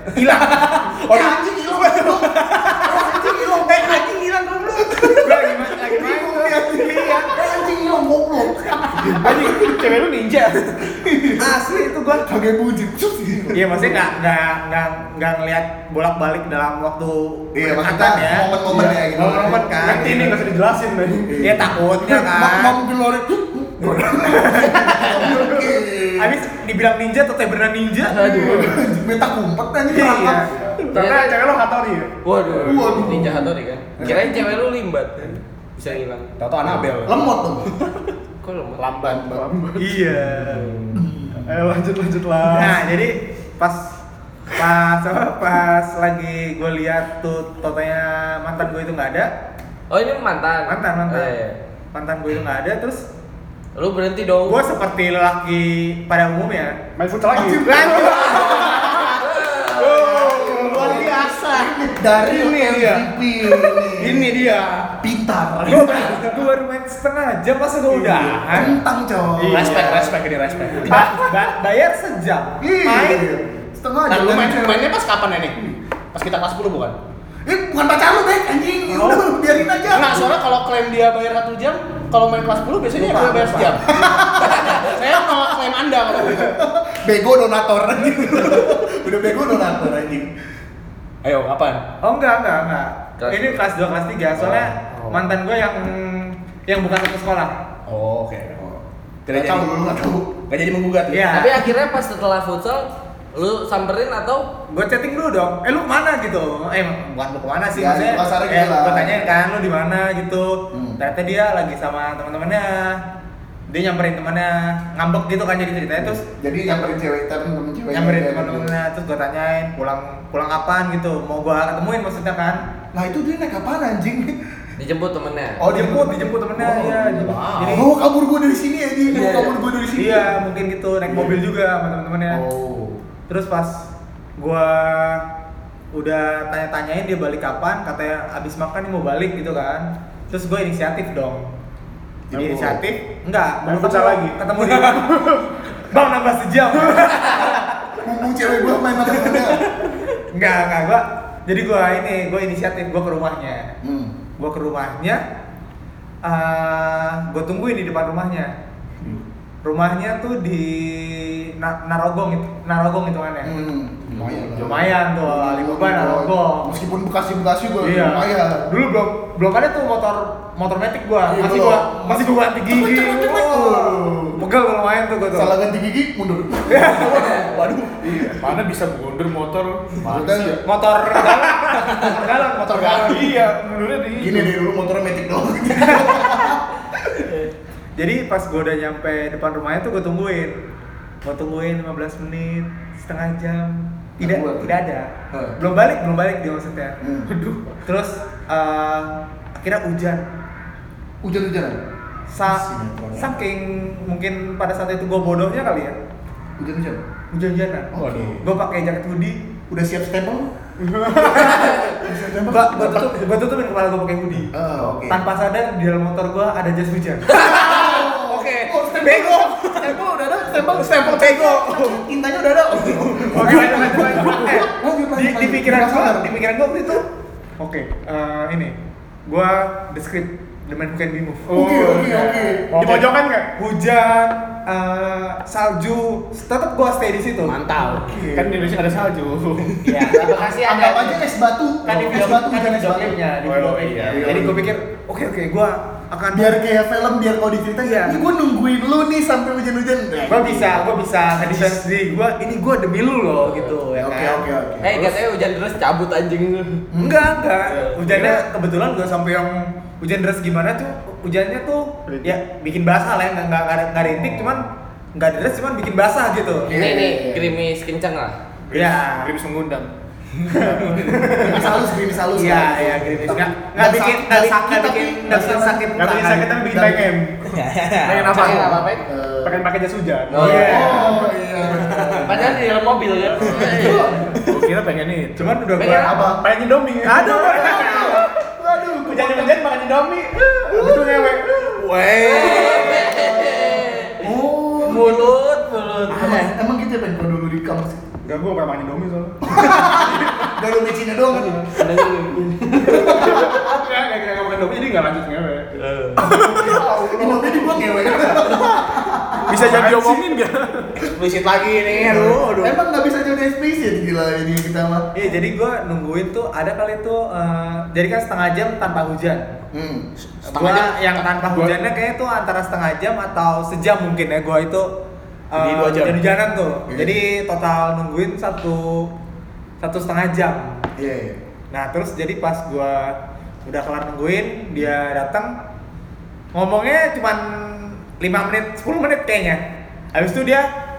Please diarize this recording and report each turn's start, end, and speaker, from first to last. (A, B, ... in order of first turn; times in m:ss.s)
0:00.1-0:05.5 A
0:00.2-0:00.7 B
0:00.9-0:04.1 C
0:04.7-0:10.0 C
0:05.2-0:07.4 B
0:09.1-0:10.7 D
0:10.8-0:14.1 C
0:11.4-0:12.2 B
0:13.5-0:20.3 B
0:17.5-0:20.4 C
0:19.7-0:21.5 D
0:21.3-0:26.4 C
0:21.4-0:22.8 B
0:24.2-0:25.5 B
0:26.1-0:28.7 B
0:28.1-0:30.5 C
0:28.1-0:28.8 D
0:29.9-0:30.5 B
0:30.5-0:33.2 D
0:30.9-0:31.4 E
0:30.9-0:31.3 F
0:32.2-0:36.3 E
0:32.6-0:34.6 C
0:36.4-0:37.2 F
0:36.6-0:37.7 C
0:38.4-0:38.8 E
0:38.8-0:39.7 F
0:39.0-0:39.4 C
0:39.3-0:42.9 D
0:39.8-0:40.8 B
0:40.9-0:41.7 C
0:42.5-0:44.0 B
0:44.5-0:49.3 B
0:49.9-0:51.6 E
0:50.7-0:51.4 B
0:51.9-0:53.0 B
0:53.8-0:54.7 E
0:54.4-0:56.8 B
0:57.0-0:58.8 D
0:57.3-0:59.0 C
0:57.8-1:04.9 A
0:57.9-0:58.4 B
0:58.3-1:00.4 E
1:00.1-1:04.4 C
1:00.2-1:00.8 D
1:05.0-1:06.4 C
1:05.7-1:08.8 B
1:05.7-1:06.2 A
1:08.2-1:08.7 A
1:08.5-1:10.1 C
1:09.5-1:11.1 A
1:09.6-1:10.1 B
1:10.8-1:11.2 C
1:10.8-1:13.3 B
1:12.6-1:15.0 C
1:14.1-1:17.0 A
1:17.4-1:20.3 C
1:19.0-1:19.3 B
1:19.9-1:26.6 A
1:22.9-1:23.8 B
1:23.8-1:25.2 C
1:26.1-1:30.3 C
1:31.2-1:31.8 A
1:32.0-1:37.5 B
1:33.2-1:33.6 E
1:34.4-1:34.7 A
1:37.9-1:39.7 A
1:39.3-1:40.4 C
1:40.5-1:41.6 A
1:41.1-1:41.7 B
1:41.3-1:44.5 E
1:44.7-1:53.0 B
1:47.7-1:49.3 C
1:50.7-1:51.0 C
1:53.7-1:56.2 B
1:56.0-1:58.7 C
1:57.9-2:02.6 B
2:02.9-2:04.4 C
2:04.8-2:05.6 E
2:05.6-2:10.3 C
2:05.7-2:07.9 B
2:07.4-2:07.8 A
2:09.1-2:12.4 B
2:11.0-2:11.4 C
2:12.3-2:13.0 C
2:13.3-2:13.9 B
2:14.4-2:15.2 B
2:15.9-2:21.5 B
2:22.3-2:22.8 C
2:22.3-2:25.3 B
2:23.6-2:25.5 D
2:25.9-2:27.8 B
2:28.0-2:29.6 C
2:30.3-2:33.7 B
2:33.8-2:34.2 C
2:34.4-2:35.2 B
2:36.2-2:38.5 B
2:39.6-2:43.5 B
2:43.4-2:48.7 C
2:44.5-2:46.8 B
2:47.8-2:55.6 B
2:51.2-2:54.4 C
2:55.3-2:57.4 C
2:56.7-2:57.6 B
2:56.7-2:58.0 A
2:58.1-2:58.5 D
2:58.1-3:00.6 F
3:00.0-3:00.6 C
3:00.6-3:03.4 B
3:01.5-3:02.0 D
3:01.9-3:03.2 A
3:02.9-3:04.5 D
3:04.2-3:06.6 C
3:08.0-3:10.6 B
3:11.2-3:17.0 B
3:14.2-3:14.7 C
3:15.3-3:15.6 C
3:17.0-3:17.3 C
3:17.8-3:20.2 B
3:21.2-3:21.8 C
3:22.3-3:25.9 B
3:22.4-3:23.4 C
3:26.6-3:27.0 C
3:27.3-3:29.4 B
3:27.9-3:28.4 C
3:28.0-3:28.4 A
3:29.7-3:30.5 C
3:30.8-3:31.7 D
3:31.1-3:33.2 C
3:31.2-3:31.9 B
3:32.5-3:34.5 B
3:34.5-3:35.2 C
3:35.0-3:37.4 B
3:37.3-3:40.0 A
3:37.3-3:46.4 C
3:40.5-3:42.0 A
3:42.8-3:43.8 A
3:43.3-3:47.0 B
3:43.4-3:44.5 D
3:47.6-3:48.7 B
3:49.2-3:51.6 B
3:51.5-3:53.5 D
3:51.5-3:52.7 C
3:52.5-3:53.0 B
3:53.6-3:57.6 B
3:57.4-3:58.2 A
3:57.8-3:58.7 C
3:58.3-3:59.6 F
3:58.4-3:59.7 D
3:59.8-4:01.2 B
4:00.1-4:03.2 C
4:01.8-4:06.6 B
4:03.5-4:04.2 D
4:03.9-4:04.3 F
4:04.1-4:04.7 C
4:06.3-4:10.8 C
4:07.8-4:08.2 B
4:10.3-4:14.4 B
4:13.4-4:13.7 E
4:13.9-4:15.0 C
4:14.8-4:16.8 E
4:16.9-4:17.4 C
4:17.0-4:26.7 B
4:17.9-4:18.4 D
4:22.1-4:22.3 D
4:26.6-4:27.6 C
4:26.7-4:28.4 E
4:28.7-4:29.9 F
4:28.7-4:29.3 B
4:30.5-4:31.8 D
4:30.7-4:31.4 B
4:31.3-4:36.0 C
4:32.3-4:36.6 B
4:36.0-4:37.5 D
4:36.6-4:37.2 C
4:37.4-4:38.8 A
4:38.2-4:39.0 E
4:38.3-4:38.7 D
4:38.3-4:38.7 F
4:39.0-4:39.7 C
4:39.4-4:41.1 D
4:40.3-4:41.2 E
4:40.3-4:41.2 B
4:40.4-4:42.6 C
4:41.7-4:42.6 A
4:42.2-4:44.2 E
4:43.4-4:44.4 C
4:43.6-4:45.7 F
4:45.4-4:46.4 B
4:45.8-4:46.2 E
4:45.8-4:46.4 C
4:46.4-4:48.3 D
4:47.0-4:48.2 B
4:47.4-4:49.6 C
4:49.0-4:51.5 D
4:50.7-4:51.8 C
4:51.8-4:53.3 A
4:52.2-4:54.2 E
4:52.3-4:55.4 C
4:54.8-4:56.4 E
4:56.1-4:56.5 A
4:56.1-4:58.1 C
4:58.2-5:00.0 D
4:59.4-5:01.8 C
5:01.7-5:03.2 E
5:02.7-5:03.7 C
5:03.0-5:08.5 D
5:03.5-5:05.1 F
5:05.7-5:06.3 E
5:06.2-5:09.5 C
5:06.3-5:06.7 F
5:09.5-5:10.9 D
5:09.5-5:10.4 F
5:11.0-5:12.8 A
5:11.9-5:15.1 C
5:15.1-5:19.4 B
5:19.7-5:20.1 C
5:20.2-5:21.7 A
5:20.5-5:24.9 B
5:25.5-5:29.1 B
5:25.6-5:26.2 A
5:26.9-5:27.2 C
5:29.8-5:30.8 B
5:31.0-5:31.4 C
5:31.7-5:35.5 B
5:36.5-5:39.6 B
5:40.1-5:40.7 B